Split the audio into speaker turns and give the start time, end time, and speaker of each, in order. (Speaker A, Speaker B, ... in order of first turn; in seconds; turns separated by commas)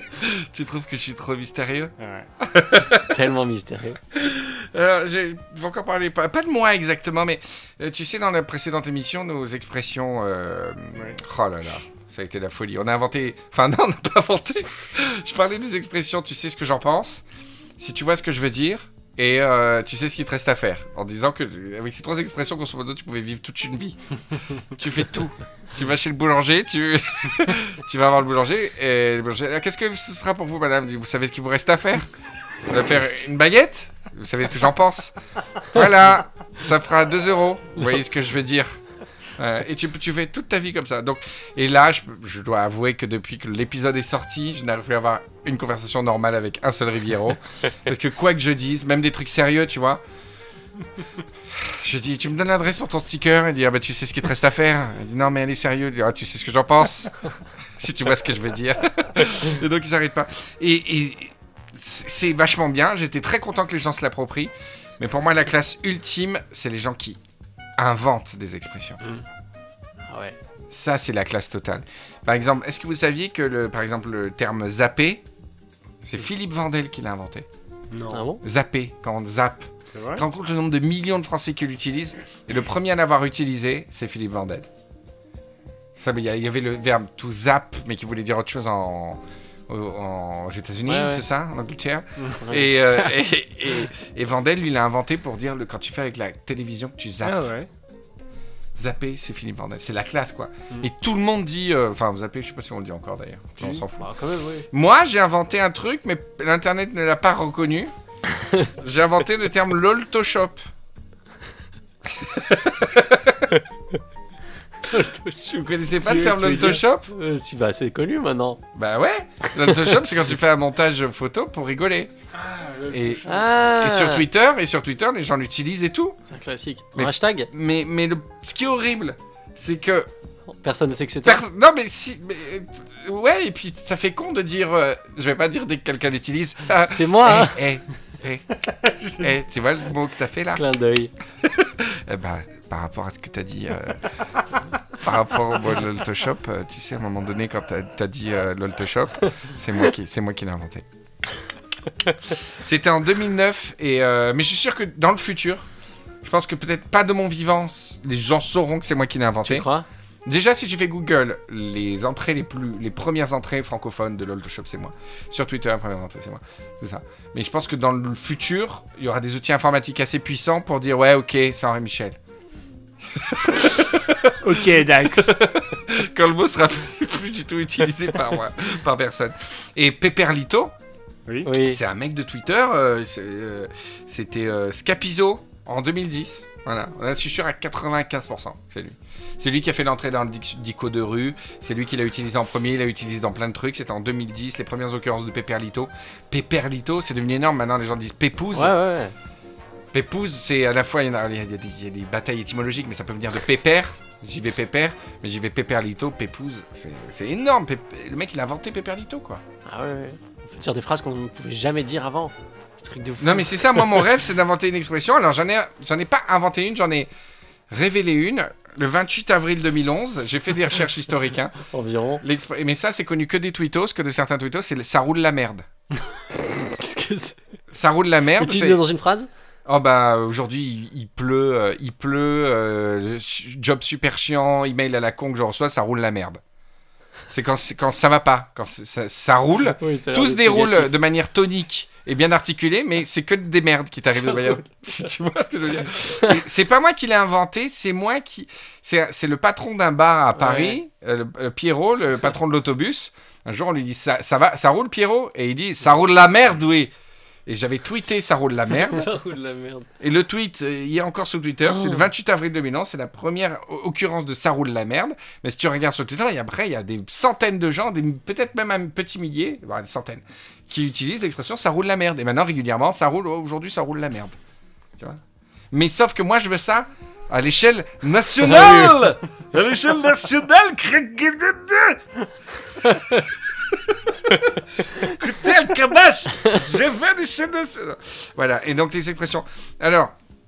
Speaker A: 0.1-3.1, Speaker B: 2.0-2.3, Speaker C: 3.1-4.0, Speaker A: 4.1-17.2, Speaker A: 17.8-24.0, Speaker A: 24.7-32.1, Speaker A: 32.6-38.8, Speaker A: 39.4-50.0, Speaker A: 51.5-57.2, Speaker A: 57.8-67.2, Speaker A: 67.8-69.0, Speaker C: 70.0-70.4, Speaker A: 70.7-75.2, Speaker A: 76.0-77.5, Speaker B: 77.9-78.2, Speaker C: 78.1-78.4, Speaker A: 78.4-84.7, Speaker B: 79.9-80.2, Speaker A: 86.0-97.5, Speaker C: 90.9-91.2, Speaker C: 92.4-93.2, Speaker B: 97.2-97.7, Speaker A: 98.8-104.1, Speaker C: 104.0-104.7, Speaker A: 104.7-107.9, Speaker C: 108.3-108.7, Speaker A: 108.8-110.6, Speaker A: 112.3-113.6, Speaker C: 114.8-115.6, Speaker A: 115.5-117.1, Speaker B: 116.0-116.8, Speaker C: 117.1-118.6, Speaker A: 118.8-122.1, Speaker C: 119.6-120.0, Speaker B: 122.3-123.5, Speaker A: 122.9-126.2, Speaker C: 123.3-124.2, Speaker C: 126.3-127.5, Speaker A: 127.0-130.1, Speaker C: 130.5-131.5, Speaker A: 131.2-138.4, Speaker C: 136.8-137.6, Speaker B: 138.8-139.3, Speaker A: 139.2-140.7, Speaker C: 140.5-141.1, Speaker A: 141.7-144.1, Speaker A: 144.9-150.9, Speaker A: 152.5-155.7, Speaker A: 156.2-159.7, Speaker C: 159.4-159.9, Speaker A: 160.2-172.2, Speaker A: 173.1-174.4, Speaker B: 174.4-175.4, Speaker A: 175.1-180.7, Speaker C: 181.4-181.8, Speaker A: 181.6-198.8, Speaker C: 198.5-199.2, Speaker A: 199.9-209.4, Speaker C: 209.7-214.1, Speaker A: 213.2-217.1, Speaker A: 217.7-221.6, Speaker C: 221.7-222.2, Speaker A: 222.2-225.7, Speaker C: 226.3-227.4, Speaker A: 227.7-228.8, Speaker C: 228.4-229.3, Speaker A: 229.7-236.4, Speaker A: 237.3-256.9, Speaker C: 239.6-240.9, Speaker C: 244.2-244.6, Speaker C: 246.1-246.4, Speaker C: 250.4-250.8, Speaker A: 257.5-259.1, Speaker C: 258.7-259.9, Speaker A: 260.0-274.4, Speaker C: 261.7-262.1, Speaker A: 275.7-282.0, Speaker C: 278.4-279.0, Speaker A: 284.8-290.1